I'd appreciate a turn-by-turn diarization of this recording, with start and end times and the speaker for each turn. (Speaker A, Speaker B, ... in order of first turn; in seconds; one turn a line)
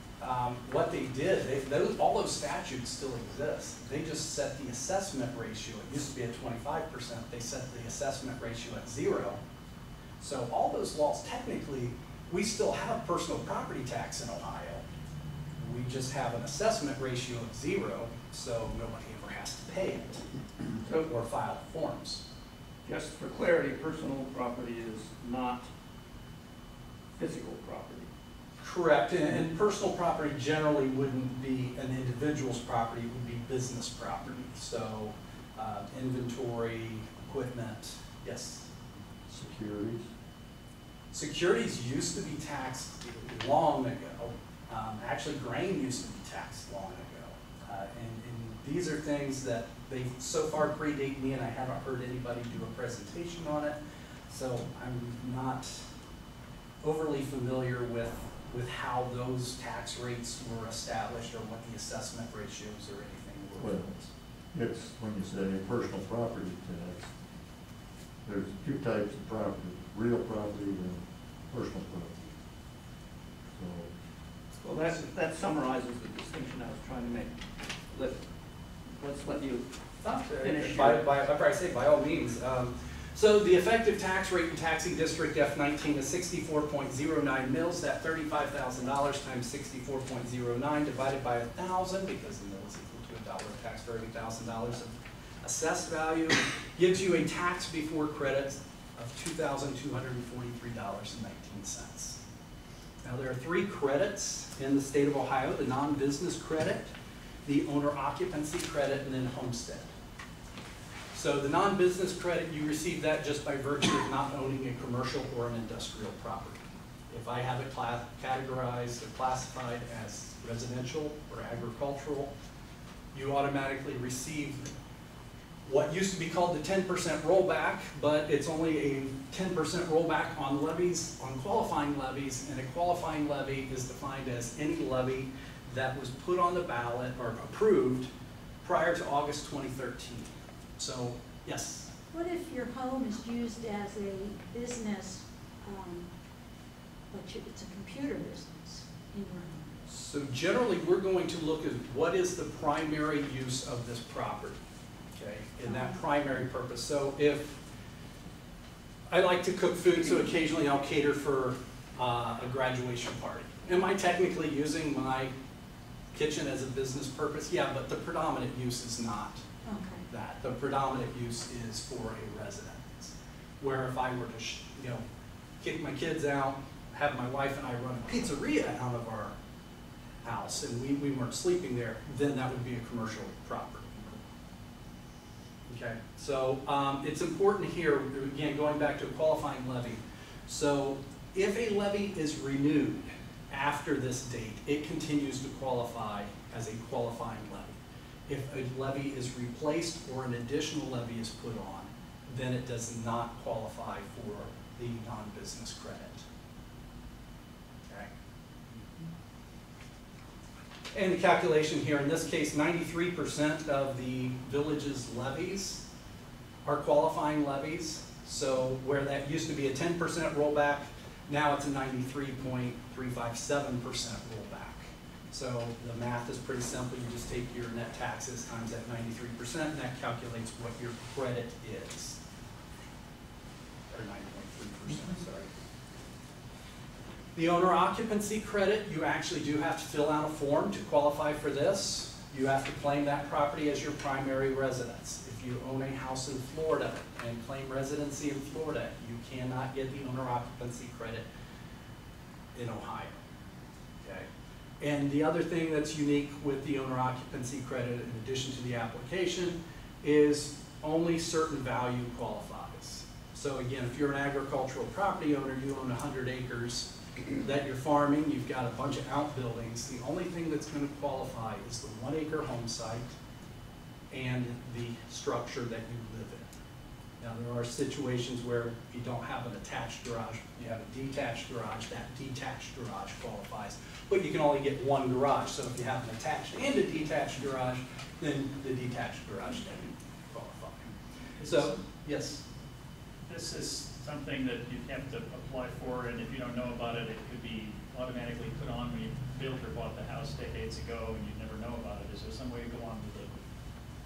Speaker A: 0.2-9.4
Speaker A: 10.2-14.8
Speaker A: 15.6-20.2
Speaker A: 20.9-22.2
Speaker B: 22.9-25.7
Speaker B: 27.2-28.1
Speaker A: 28.6-38.7
Speaker C: 39.3-40.1
Speaker A: 41.1-53.8
Speaker A: 54.3-55.8
Speaker A: 56.8-64.1
Speaker C: 63.6-64.0
Speaker C: 64.5-67.1
Speaker C: 68.2-72.2
Speaker C: 73.5-73.9
Speaker B: 74.6-77.3
Speaker B: 77.9-78.2
Speaker B: 79.0-79.7
Speaker A: 80.0-102.2
Speaker B: 80.4-81.1
Speaker A: 103.0-106.9
Speaker A: 107.5-109.9
Speaker A: 111.1-122.3
Speaker A: 123.1-124.7
Speaker A: 125.7-138.1
Speaker A: 138.6-141.9
Speaker D: 142.1-146.1
Speaker D: 147.1-149.8
Speaker A: 149.9-154.6
Speaker A: 155.2-157.6
Speaker D: 155.7-156.0
Speaker A: 159.1-165.3
Speaker A: 166.1-169.4
Speaker D: 169.7-170.0
Speaker A: 170.1-175.0
Speaker A: 175.6-179.3
Speaker A: 180.2-184.2
Speaker A: 185.7-206.2
Speaker A: 210.9-215.8
Speaker A: 216.7-232.2
Speaker A: 233.9-235.5
Speaker A: 237.3-251.3
Speaker A: 252.6-253.2
Speaker A: 254.8-273.1
Speaker A: 274.1-276.5
Speaker A: 277.2-290.9
Speaker E: 291.4-291.8
Speaker A: 291.4-292.4
Speaker E: 293.3-303.3